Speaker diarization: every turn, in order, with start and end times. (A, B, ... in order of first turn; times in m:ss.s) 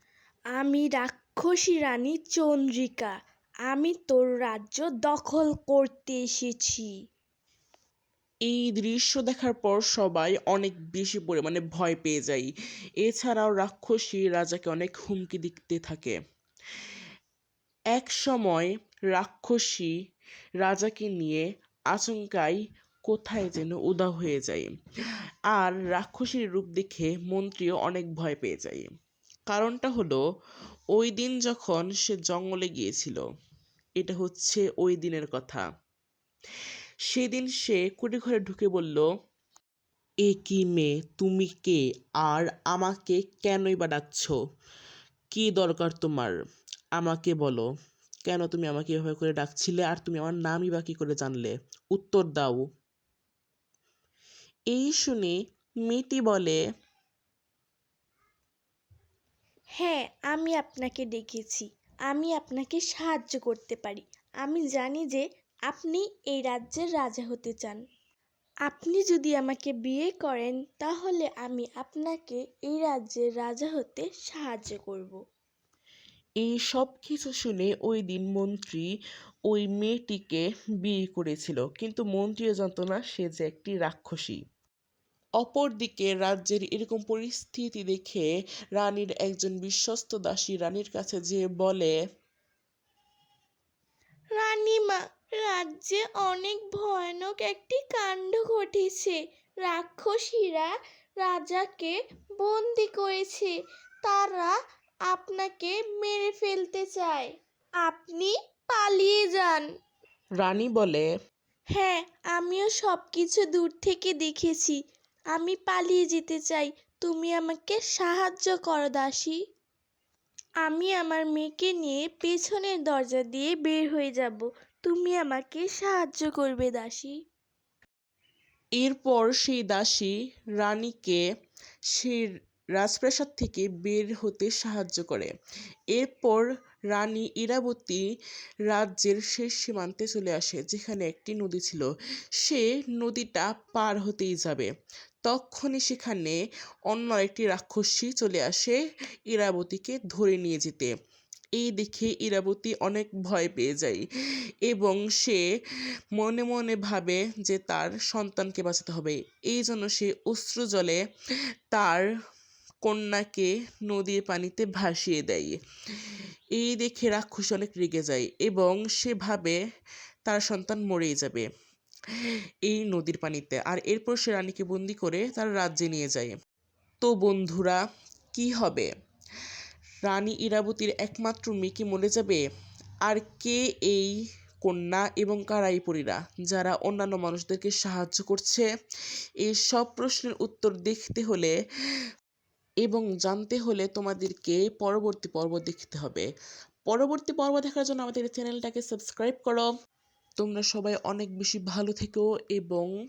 0:00.6-0:03.1 A
0:03.7-0:06.9 A
0:08.5-0:12.5 B
0:13.0-0:16.1 B
0:17.9-0:19.9 B
0:20.6-0:22.6 B
0:23.1-0:24.7 B
0:25.5-0:28.9 B
0:29.5-0:30.2 B
0:30.9-0:33.2 B
0:34.0-0:35.6 B
0:37.1-0:39.1 B
0:40.2-0:44.4 B
0:45.3-0:46.4 B
0:47.0-0:47.6 B
0:48.3-0:52.6 B
0:54.7-0:56.6 B
0:59.8-1:07.8 A
1:08.7-1:15.2 A
1:16.4-1:18.8 B
1:19.5-1:24.4 B
1:25.4-1:31.9 B
1:34.4-1:44.5 A
1:45.1-1:47.3 A
1:47.8-1:49.6 A
1:50.4-1:51.1 B
1:51.7-1:54.8 A
1:55.3-1:59.4 A
2:00.6-2:07.1 A
2:08.8-2:11.2 B
2:11.9-2:15.3 B
2:15.9-2:18.0 B
2:18.7-2:21.9 B
2:22.4-2:24.7 B
2:25.2-2:26.4 B
2:26.9-2:28.8 B
2:29.3-2:30.9 B
2:31.6-2:34.0 B
2:34.7-2:35.4 B
2:36.2-2:41.0 B
2:41.7-2:42.0 B
2:42.8-2:45.6 B
2:46.6-2:49.6 B
2:50.2-2:51.5 B
2:52.6-2:56.3 B
2:57.0-2:57.8 B
2:58.3-2:58.9 B
3:00.0-3:02.4 B
3:03.0-3:04.1 B
3:04.6-3:08.7 B
3:09.4-3:11.5 B
3:12.8-3:16.3 B
3:16.9-3:19.7 B
3:20.4-3:22.9 B